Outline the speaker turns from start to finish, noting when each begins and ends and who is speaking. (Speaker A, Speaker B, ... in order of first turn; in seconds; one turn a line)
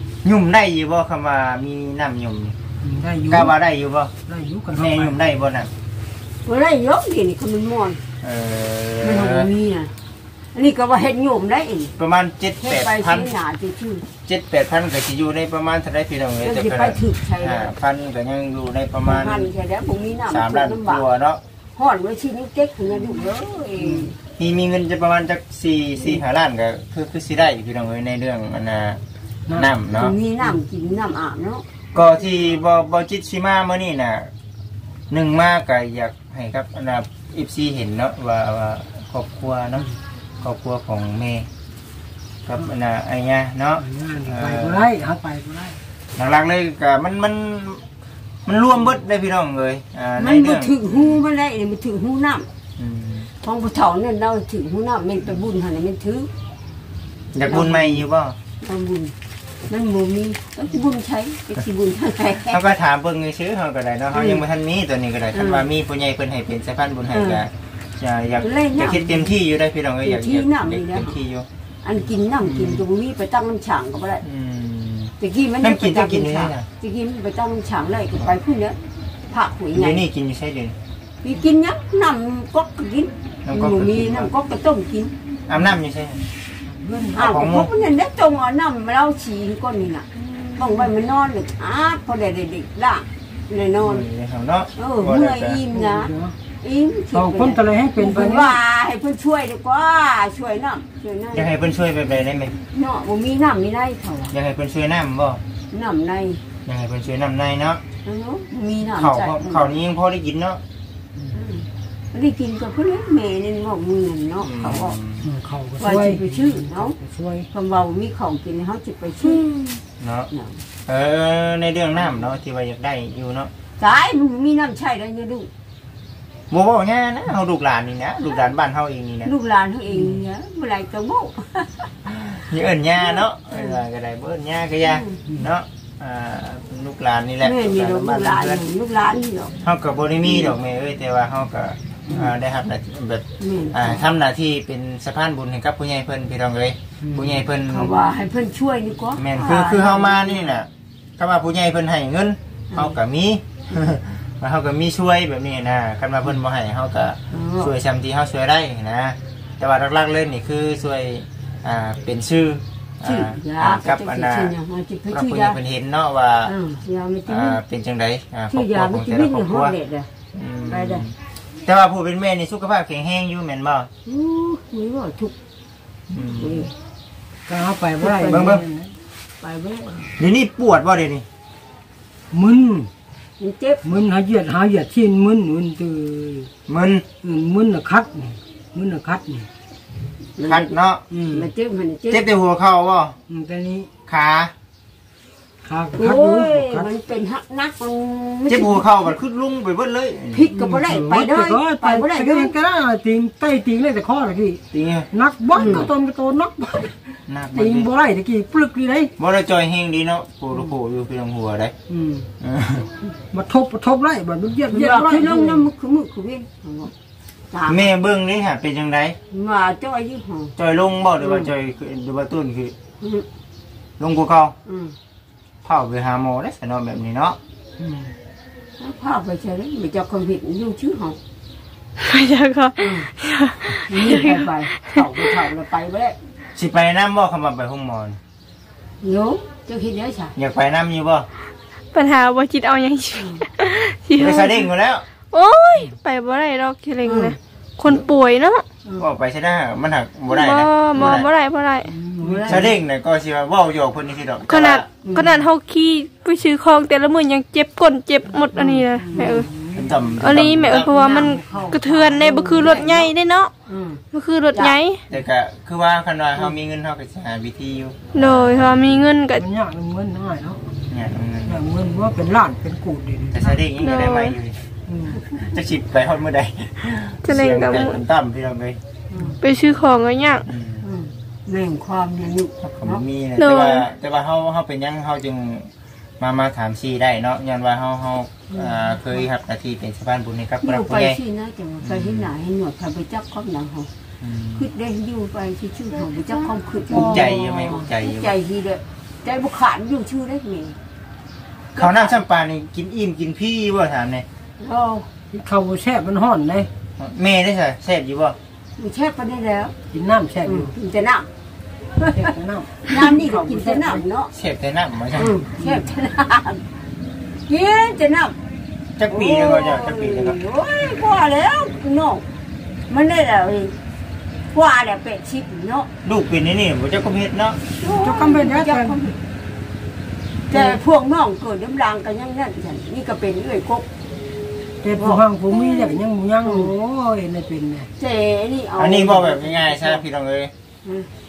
Speaker A: 0.2-2.6
Speaker B: 2.8-3.6
Speaker A: 3.3-4.1
Speaker B: 4.3-5.2
Speaker A: 4.7-5.7
Speaker C: 6.5-8.0
Speaker A: 8.2-9.5
Speaker C: 9.0-9.9
Speaker C: 10.5-11.9
Speaker A: 12.0-13.3
Speaker C: 12.6-14.1
Speaker A: 14.2-19.5
Speaker C: 16.4-17.7
Speaker C: 19.1-21.1
Speaker A: 20.3-21.4
Speaker C: 21.8-24.1
Speaker A: 23.8-29.0
Speaker A: 29.5-30.1
Speaker C: 29.9-31.6
Speaker A: 31.9-34.3
Speaker A: 35.1-39.9
Speaker A: 40.4-41.5
Speaker A: 42.5-44.9
Speaker B: 43.8-45.8
Speaker A: 46.2-47.8
Speaker A: 48.5-51.2
Speaker C: 50.2-52.5
Speaker A: 52.8-53.3
Speaker C: 53.4-56.3
Speaker A: 57.3-58.4
Speaker C: 57.5-58.0
Speaker C: 58.6-59.1
Speaker C: 59.7-62.7
Speaker A: 62.5-71.5
Speaker C: 64.1-64.4
Speaker C: 65.3-65.7
Speaker C: 67.1-67.4
Speaker C: 68.4-69.4
Speaker C: 70.0-71.2
Speaker C: 71.8-74.2
Speaker A: 72.4-72.8
Speaker A: 74.2-76.7
Speaker C: 75.2-78.8
Speaker C: 79.3-80.0
Speaker A: 79.7-80.8
Speaker C: 81.2-85.1
Speaker A: 83.5-84.3
Speaker A: 85.5-86.2
Speaker B: 86.7-87.3
Speaker C: 87.1-94.0
Speaker A: 87.2-87.7
Speaker A: 93.8-95.6
Speaker C: 94.8-101.6
Speaker B: 95.7-96.4
Speaker B: 97.1-98.6
Speaker A: 101.3-102.5
Speaker C: 102.7-104.3
Speaker A: 104.3-105.4
Speaker C: 105.7-106.4
Speaker A: 106.7-107.8
Speaker C: 108.0-109.7
Speaker A: 108.9-110.6
Speaker C: 111.3-115.0
Speaker A: 114.4-115.3
Speaker B: 115.2-117.5
Speaker C: 115.8-117.0
Speaker C: 117.5-119.8
Speaker A: 120.0-120.3
Speaker C: 120.3-120.6
Speaker A: 120.9-123.5
Speaker C: 123.8-125.5
Speaker A: 126.5-129.3
Speaker C: 129.2-131.9
Speaker B: 129.9-130.2
Speaker A: 132.2-138.6
Speaker C: 133.0-133.8
Speaker C: 134.8-135.2
Speaker C: 137.4-139.6
Speaker A: 139.6-147.9
Speaker C: 140.2-140.5
Speaker C: 143.4-144.0
Speaker B: 147.0-147.4
Speaker C: 147.6-150.5
Speaker A: 149.2-164.5
Speaker C: 157.3-157.7
Speaker C: 163.0-165.6
Speaker A: 165.1-166.5
Speaker C: 166.5-167.6
Speaker A: 167.3-169.8
Speaker C: 168.5-170.1
Speaker A: 170.3-171.2
Speaker C: 170.7-171.0
Speaker A: 171.7-173.9
Speaker C: 174.1-175.3
Speaker A: 176.1-176.7
Speaker C: 176.2-176.7
Speaker B: 177.5-178.9
Speaker C: 178.0-178.5
Speaker A: 178.3-178.6
Speaker C: 179.4-180.1
Speaker A: 180.2-181.2
Speaker B: 182.3-182.9
Speaker C: 183.4-183.8
Speaker B: 183.8-186.5
Speaker A: 186.7-187.0
Speaker B: 187.2-189.5
Speaker C: 190.4-190.7
Speaker A: 190.4-191.0
Speaker B: 191.1-191.5
Speaker C: 191.3-192.3
Speaker A: 192.1-193.2
Speaker B: 193.3-193.9
Speaker A: 194.1-194.5
Speaker B: 195.6-196.9
Speaker C: 196.0-199.1
Speaker A: 198.5-200.5
Speaker C: 200.3-202.5
Speaker B: 200.5-209.1
Speaker A: 204.7-205.1
Speaker C: 205.5-205.9
Speaker A: 207.3-207.9
Speaker A: 209.2-211.7
Speaker B: 211.9-212.3
Speaker A: 212.4-212.9
Speaker B: 213.3-215.7
Speaker C: 214.7-216.9
Speaker C: 217.5-217.9
Speaker A: 217.7-219.2
Speaker C: 219.3-220.6
Speaker A: 220.6-222.8
Speaker C: 221.2-221.5
Speaker C: 223.0-223.3
Speaker A: 224.0-224.6
Speaker C: 224.7-224.9
Speaker A: 225.6-227.4
Speaker B: 227.8-228.1
Speaker C: 228.8-231.2
Speaker D: 232.0-235.3
Speaker C: 232.8-233.1
Speaker C: 233.8-236.2
Speaker A: 236.6-238.2
Speaker C: 239.0-240.3
Speaker A: 240.4-241.3
Speaker D: 241.9-244.7
Speaker A: 244.2-245.1
Speaker D: 245.3-248.7
Speaker C: 247.0-247.4
Speaker A: 249.0-251.3
Speaker D: 250.3-251.9
Speaker B: 251.8-252.7
Speaker C: 252.2-252.7
Speaker A: 252.5-254.9
Speaker D: 254.5-259.5
Speaker C: 255.0-255.4
Speaker B: 258.5-260.2
Speaker C: 259.0-259.5
Speaker A: 259.7-260.9
Speaker D: 260.2-263.5
Speaker C: 260.7-263.1
Speaker C: 263.7-264.0
Speaker D: 264.1-265.0
Speaker A: 265.1-268.8
Speaker D: 268.1-269.4
Speaker B: 269.4-270.7
Speaker A: 270.9-271.6
Speaker B: 271.5-273.6
Speaker A: 273.3-274.6
Speaker D: 273.8-274.4
Speaker B: 274.9-275.2
Speaker A: 275.4-278.8
Speaker D: 277.2-278.0
Speaker B: 279.1-279.4
Speaker D: 279.4-280.5
Speaker A: 280.5-280.8
Speaker C: 280.8-283.0
Speaker A: 282.6-291.2
Speaker D: 283.4-283.9
Speaker C: 288.5-289.2
Speaker C: 290.6-293.9
Speaker A: 291.8-292.3
Speaker A: 294.2-294.7
Speaker C: 294.6-300.8
Speaker A: 296.9-298.3
Speaker B: 297.1-297.4
Speaker A: 301.7-304.2
Speaker C: 301.8-302.2
Speaker C: 304.6-305.1
Speaker B: 305.3-306.7
Speaker A: 307.0-308.4
Speaker C: 308.8-309.8
Speaker B: 309.9-310.8
Speaker C: 310.4-311.3
Speaker C: 312.0-312.3
Speaker B: 312.1-314.0
Speaker C: 312.8-314.3
Speaker A: 314.3-315.4
Speaker C: 315.1-316.6
Speaker B: 315.6-315.9
Speaker C: 317.5-318.4
Speaker A: 319.0-320.4
Speaker C: 319.1-322.2
Speaker C: 322.9-323.8
Speaker C: 324.5-325.9
Speaker A: 326.0-327.6
Speaker C: 327.8-329.1
Speaker B: 327.8-329.1
Speaker C: 330.5-333.9
Speaker B: 330.5-330.8
Speaker B: 334.8-337.9
Speaker C: 335.0-336.7
Speaker C: 338.0-340.0
Speaker A: 338.8-340.5